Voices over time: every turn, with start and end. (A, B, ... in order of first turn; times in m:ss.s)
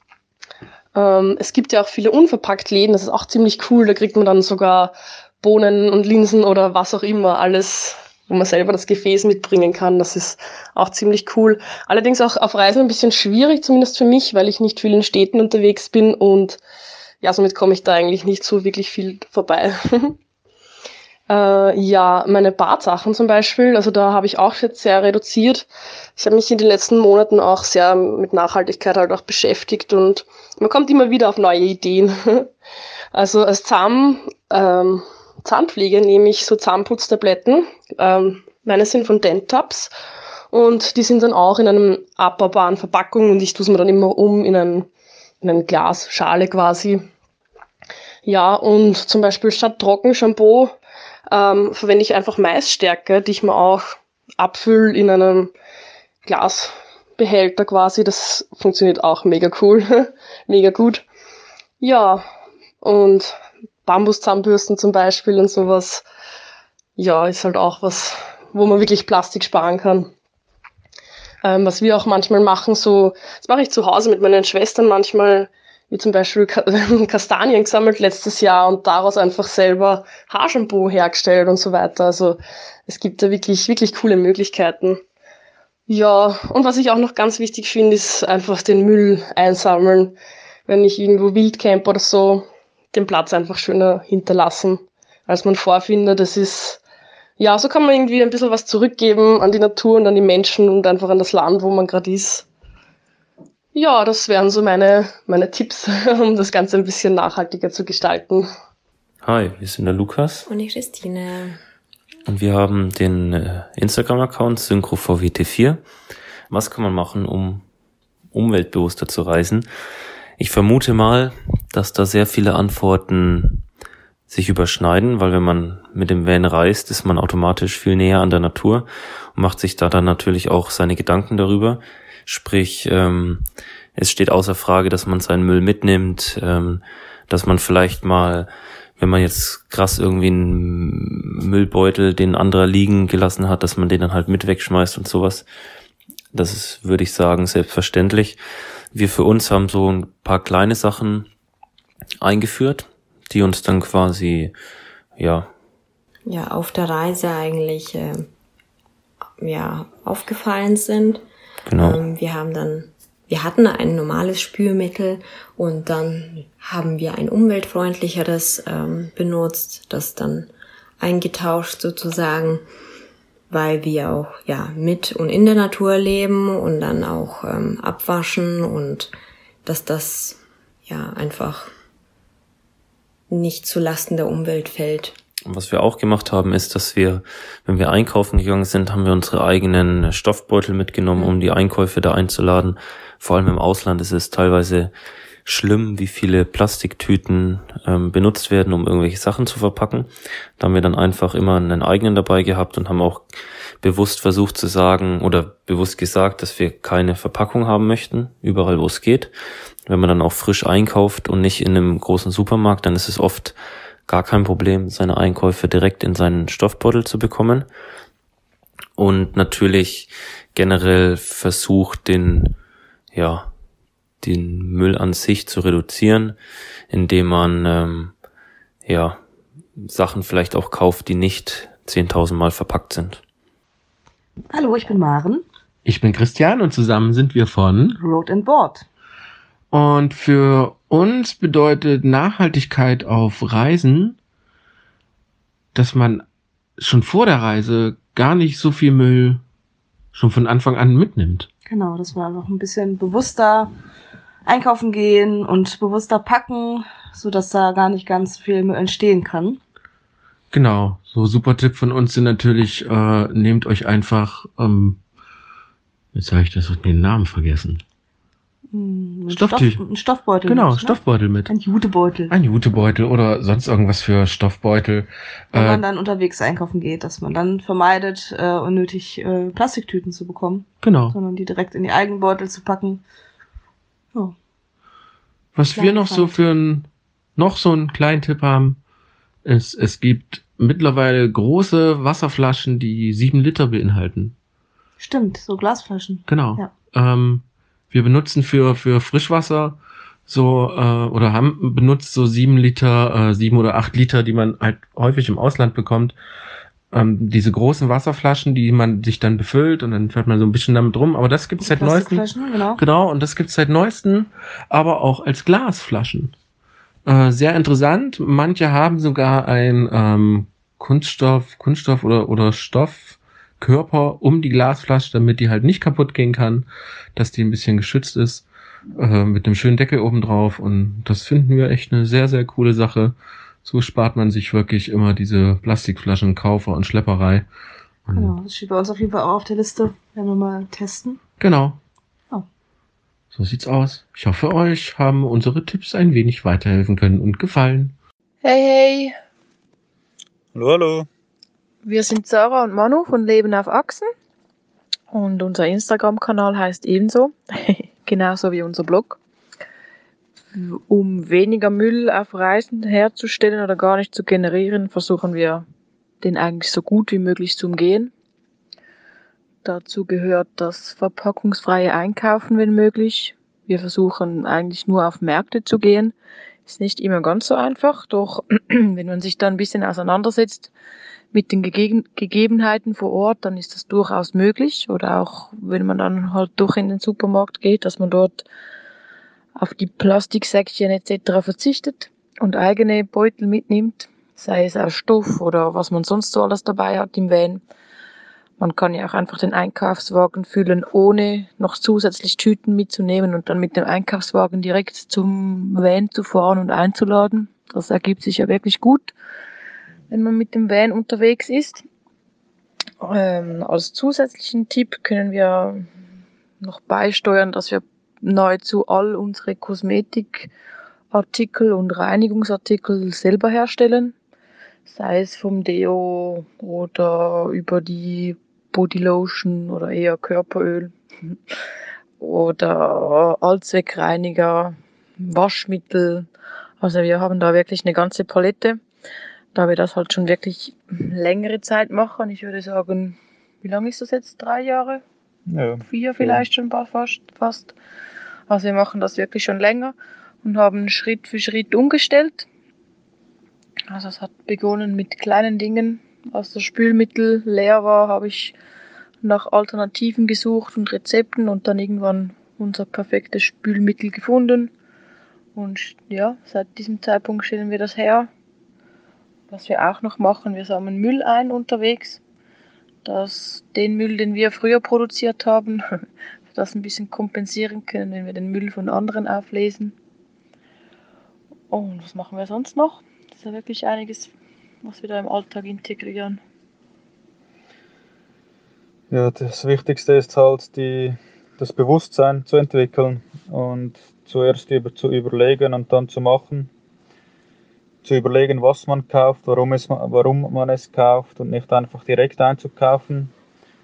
0:01.0-0:16.6 A
0:17.2-0:20.2 A
0:21.3-0:32.5 A
0:33.1-0:39.9 A
0:40.5-0:44.9 A
0:45.4-0:47.1 A
0:48.2-0:50.8 A
0:51.3-0:55.5 A
0:56.2-1:01.0 A
1:01.8-1:02.3 A
1:02.8-1:06.0 A
1:07.0-1:10.1 A
1:11.4-1:25.0 A
1:25.9-1:30.2 A
1:30.7-1:36.8 A
1:37.4-1:42.5 A
1:43.7-1:48.5 A
1:49.2-1:50.5 B
1:50.5-1:51.6 C
1:52.3-1:55.8 B
1:56.5-1:57.6 B
1:58.3-1:59.7 B
2:00.4-2:03.6 B
2:04.3-2:25.5 B
2:26.3-2:31.3 B
2:32.2-2:34.5 B
2:35.2-2:35.5 B
2:36.3-2:38.3 C
2:39.4-2:41.2 C
2:41.7-2:42.0 B
2:41.8-2:52.6 C
2:53.5-2:59.1 C
2:59.6-3:01.7 C
3:03.3-3:05.2 C
3:05.5-3:14.9 B
3:15.4-3:23.3 B
3:23.8-3:29.3 B
3:29.9-3:37.7 B
3:39.0-3:42.5 B
3:43.1-3:43.5 B
3:44.2-3:46.4 B
3:46.9-3:48.1 B
3:48.9-3:49.2 B
3:49.8-3:53.2 B
3:54.5-3:55.5 D
3:55.8-3:58.0 E
3:58.0-3:58.9 D
3:59.7-4:04.2 E
4:05.7-4:06.2 E
4:06.8-4:09.4 E
4:10.1-4:11.5 E
4:11.7-4:13.8 D
4:14.5-4:19.6 D
4:20.5-4:25.0 E
4:26.1-4:27.8 E
4:28.7-4:32.4 D
4:29.3-4:29.8 E
4:30.4-4:31.5 E
4:32.3-4:35.8 E
4:35.5-4:43.0 D
4:40.8-4:41.2 E
4:45.6-4:48.8 E
4:45.7-4:46.5 D
4:49.4-4:54.4 E
4:55.0-4:56.8 D
4:56.3-5:06.2 E
5:06.9-5:16.3 E
5:11.6-5:12.8 D
5:17.1-5:28.5 E
5:29.0-5:37.5 E
5:38.1-5:38.4 E
5:38.1-5:41.2 D
5:41.4-5:41.8 E
5:43.3-5:48.0 E
5:48.4-5:49.2 F
5:50.5-5:51.1 G
5:51.8-5:54.1 F
5:55.1-5:59.2 F
6:00.5-6:05.6 F
6:06.2-6:08.1 F
6:09.6-6:16.1 F
6:16.7-6:20.7 F
6:21.3-6:28.5 F
6:29.6-6:37.6 F
6:38.6-6:49.1 F
6:50.1-6:51.8 F
6:53.0-6:55.8 F
6:56.6-7:00.5 F
7:01.1-7:04.1 F
7:04.9-7:11.4 F
7:12.2-7:16.3 F
7:16.8-7:18.8 F
7:19.5-7:25.0 F
7:25.5-7:26.5 G
7:25.9-7:27.7 F
7:28.5-7:32.5 F
7:33.9-7:38.6 F
7:39.2-7:44.7 F
7:45.6-7:48.3 F
7:49.5-7:52.2 F
7:53.0-7:55.8 F
7:56.5-7:59.9 F
8:01.7-8:04.3 F
8:04.8-8:06.4 F
8:09.1-8:16.7 G
8:18.0-8:23.3 G